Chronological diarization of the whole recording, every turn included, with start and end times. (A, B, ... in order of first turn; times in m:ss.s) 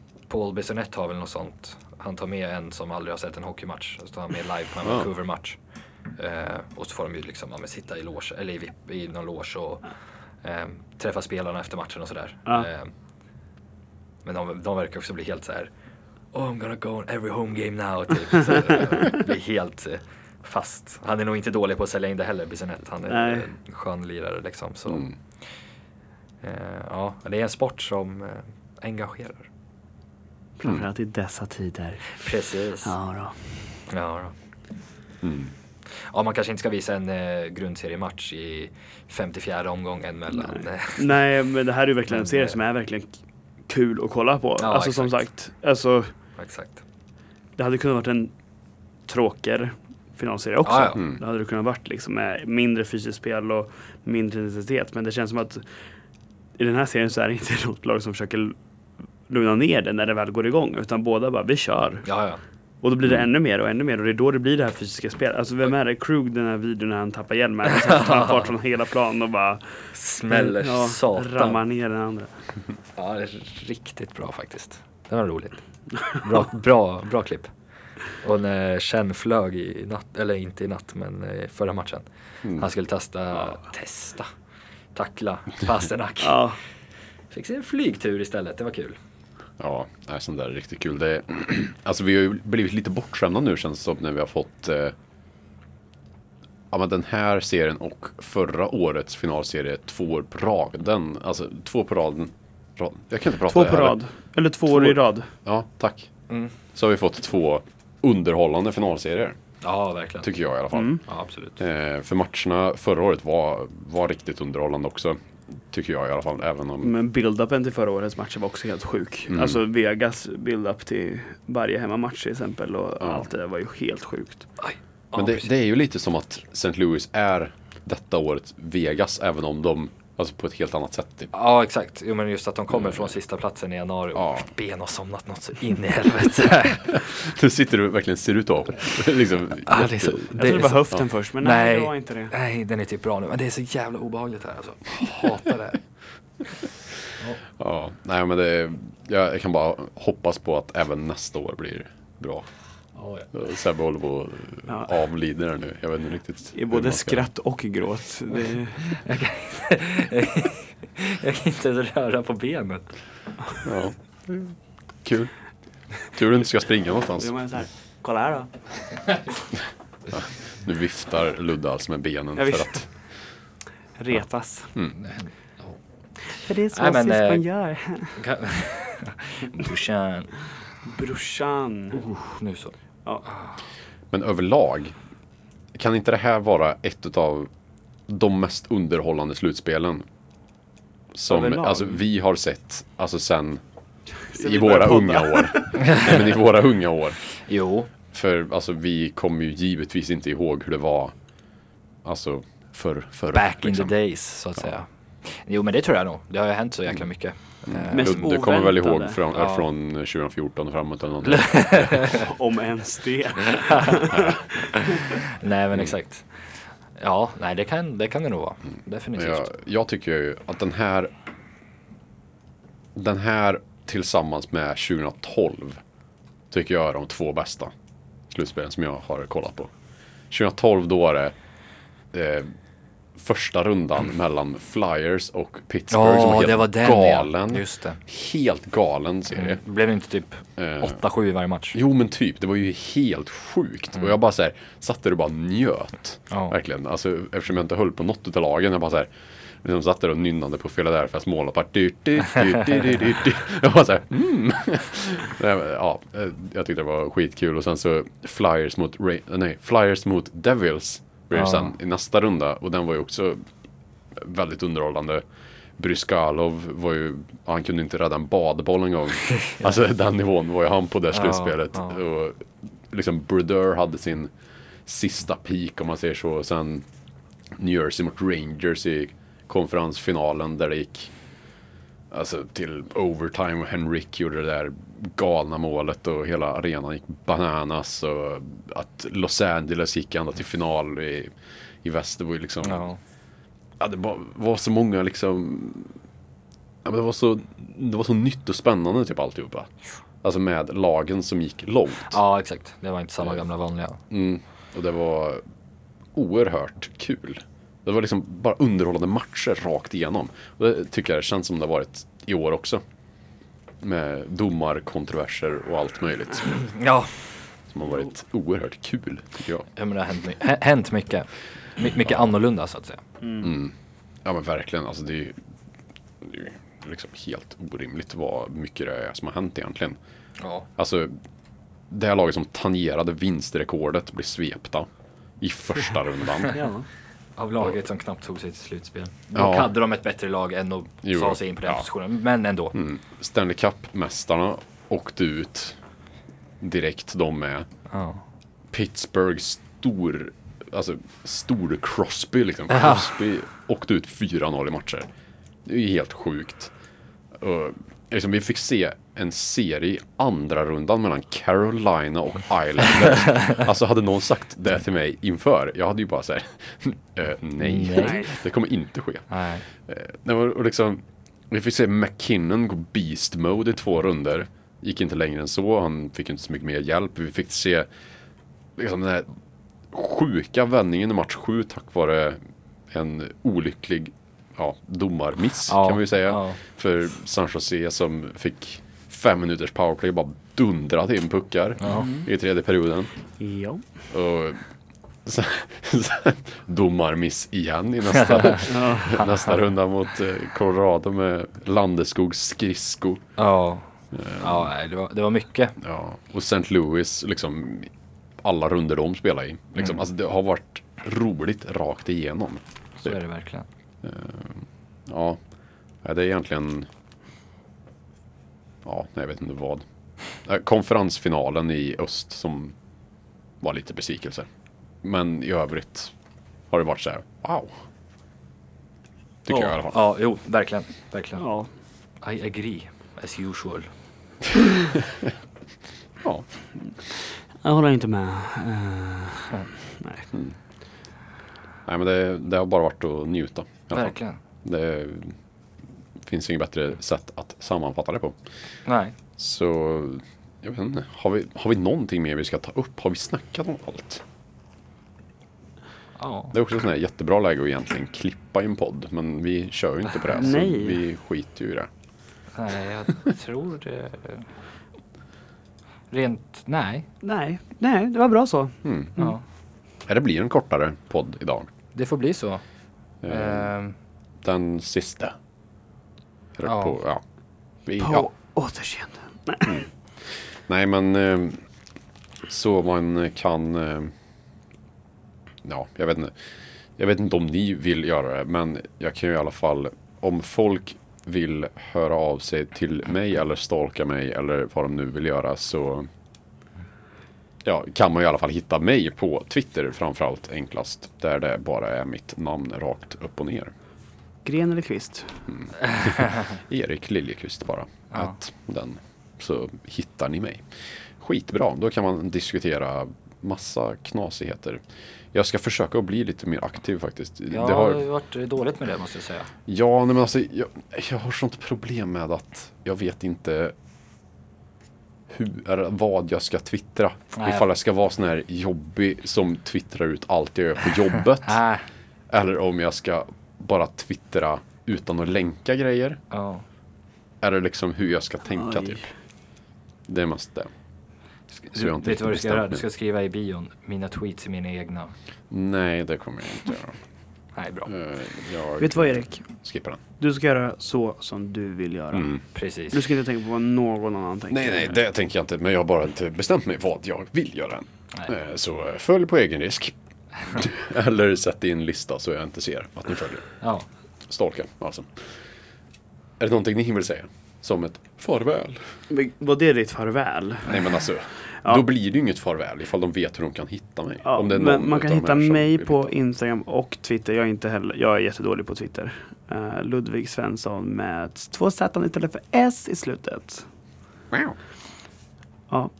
0:00.3-0:12.9 A
0:04.8-0:05.1 B
0:14.2-0:15.7 A
0:16.3-0:25.8 A
0:23.1-0:23.5 C
0:26.4-0:29.5 A
0:30.6-0:33.8 C
0:32.2-0:33.0 A
0:33.9-0:34.4 A
0:35.2-0:35.5 B
0:35.9-0:41.2 A
0:40.4-0:46.1 C
0:42.1-0:42.6 A
0:44.6-0:45.2 A
0:46.4-0:46.8 A
0:47.6-0:56.0 C
0:50.6-0:51.0 A
0:56.6-0:58.6 C
0:59.3-1:02.2 C
1:02.0-1:02.4 A
1:02.8-1:12.4 C
1:08.0-1:08.5 A
1:09.9-1:11.6 A
1:13.0-1:24.3 A
1:24.9-1:26.7 A
1:26.2-1:26.6 C
1:27.3-1:29.0 A
1:29.6-1:35.0 B
1:36.7-1:44.0 B
1:43.5-1:45.3 C
1:44.6-1:46.1 B
1:46.3-1:46.5 A
1:46.7-1:49.4 B
1:49.6-1:50.3 A
1:50.2-1:56.9 B
1:50.7-1:51.0 C
1:51.0-1:51.6 A
1:56.8-2:04.4 C
1:59.3-1:59.6 B
2:03.0-2:03.2 B
2:04.6-2:05.5 A
2:05.2-2:11.3 B
2:11.3-2:17.0 A
2:12.7-2:13.1 B
2:14.2-2:14.5 B
2:16.9-2:21.0 B
2:19.7-2:20.9 A
2:20.4-2:22.3 C
2:21.4-2:25.8 A
2:27.6-2:32.5 B
2:32.9-2:33.3 A
2:33.3-2:37.3 B
2:34.7-2:34.9 C
2:36.5-2:39.0 C
2:38.9-2:43.4 A
2:43.6-2:47.5 B
2:47.2-2:49.3 C
2:50.1-2:53.3 B
2:52.4-2:53.3 C
2:54.0-2:54.8 C
2:55.0-2:57.5 A
2:56.4-2:58.2 C
2:58.2-3:00.4 A
3:00.8-3:02.1 C
3:02.0-3:03.6 A
3:04.1-3:04.9 B
3:05.7-3:07.5 B
3:08.1-3:10.1 B
3:11.1-3:13.6 B
3:11.3-3:12.0 C
3:14.2-3:17.4 B
3:14.2-3:16.1 C
3:17.4-3:17.9 A
3:18.1-3:21.2 B
3:22.0-3:24.8 B
3:23.3-3:28.3 A
3:26.9-3:32.3 B
3:27.9-3:29.2 C
3:29.3-3:29.7 A
3:31.3-3:32.2 A
3:32.0-3:34.4 C
3:34.1-3:34.4 B
3:35.0-3:39.5 A
3:39.2-3:41.2 B
3:43.0-3:45.8 B
3:46.5-3:47.7 B
3:48.3-3:49.7 B
3:50.3-3:51.4 B
3:52.1-3:52.6 B
3:53.2-3:59.6 B
3:55.9-3:58.0 A
3:59.3-4:01.8 A
4:00.6-4:01.0 B
4:01.7-4:23.5 B
4:21.3-4:21.7 A
4:24.1-4:25.2 B
4:25.8-4:36.9 B
4:29.5-4:29.8 A
4:31.1-4:32.0 A
4:37.5-4:41.1 B
4:42.1-4:52.9 B
4:52.6-4:53.0 A
4:53.8-4:56.0 B
4:56.8-4:59.7 B
5:00.2-5:02.2 B
5:02.1-5:04.0 A
5:04.1-5:05.4 B
5:06.2-5:12.8 B
5:13.8-5:16.8 B
5:16.7-5:17.4 A
5:17.7-5:19.7 B
5:19.8-5:23.0 A
5:23.2-5:23.5 C
5:23.4-5:23.7 B
5:24.2-5:25.4 B
5:26.2-5:30.0 B
5:30.4-5:30.7 A
5:30.8-5:31.1 B
5:31.9-5:36.6 B
5:36.6-5:36.9 C
5:37.4-5:42.8 A
5:39.4-5:39.7 B
5:41.0-5:41.9 B
5:42.7-5:45.8 B
5:46.6-5:47.7 B
5:47.9-5:48.2 A
5:48.7-5:55.1 B
5:52.7-5:53.0 A
5:55.6-5:56.7 B
5:57.3-6:17.9 B
6:07.6-6:08.3 A
6:08.0-6:08.3 C
6:09.3-6:09.6 A
6:18.8-6:19.3 B
6:19.9-6:33.3 B
6:25.7-6:26.6 A
6:31.8-6:32.1 A
6:31.9-6:32.3 C
6:33.4-6:34.1 C
6:34.1-6:34.7 B
6:35.2-6:43.3 B
6:38.7-6:39.2 C
6:39.2-6:39.5 A
6:43.4-6:45.8 A
6:44.1-6:44.7 B
6:45.8-6:53.2 B
6:49.8-6:50.0 A
6:53.0-6:53.7 A
6:54.0-6:55.4 B
6:56.0-6:56.9 B
6:58.8-7:02.8 B
7:03.6-7:04.5 B
7:05.0-7:06.2 B
7:06.7-7:07.8 B
7:09.4-7:10.0 B
7:09.5-7:11.6 A
7:11.4-7:11.7 C
7:12.2-7:13.9 A
7:16.2-7:16.8 B
7:16.9-7:20.3 C
7:21.9-7:25.4 B
7:23.9-7:24.4 A
7:26.2-7:28.4 B
7:28.8-7:29.2 A
7:29.4-7:34.2 B
7:36.2-7:36.5 A
7:36.5-7:41.9 B
7:40.3-7:41.0 C
7:42.5-7:44.5 A
7:46.1-7:47.1 A
7:47.2-7:49.3 C
7:48.8-7:49.2 B
7:49.2-7:49.4 A
7:50.0-7:51.7 B
7:51.9-7:52.7 A
7:53.2-7:54.0 A
7:53.2-7:53.7 B
7:54.4-7:55.4 B
7:56.6-7:57.2 B
7:56.6-7:57.0 A
7:57.8-7:58.3 B
7:58.0-7:59.8 C
7:59.6-8:01.7 B
8:02.5-8:04.1 B
8:05.6-8:16.1 B
8:17.6-8:23.7 B
8:24.4-8:25.5 C
8:25.5-8:38.0 B
8:26.0-8:26.2 A
8:28.1-8:28.4 A
8:37.5-8:39.5 A
8:39.7-8:43.8 B
8:45.3-8:51.6 B
8:47.3-8:47.6 A
8:51.4-8:51.9 A
8:52.3-8:56.2 B
8:56.3-8:56.6 A
8:57.4-8:59.3 B
8:58.5-8:59.2 C
9:00.1-9:00.7 B
9:01.5-9:05.1 A
9:01.7-9:02.8 B
9:05.5-9:07.0 B
9:07.5-9:07.9 A
9:07.9-9:10.0 B
9:08.8-9:15.0 C
9:12.1-9:12.4 B
9:12.5-9:13.0 A
9:14.5-9:25.5 B
9:23.6-9:23.9 A
9:26.4-9:29.0 B
9:29.1-9:31.8 C
9:30.7-9:36.2 B
9:34.2-9:43.7 C
9:44.3-9:44.6 B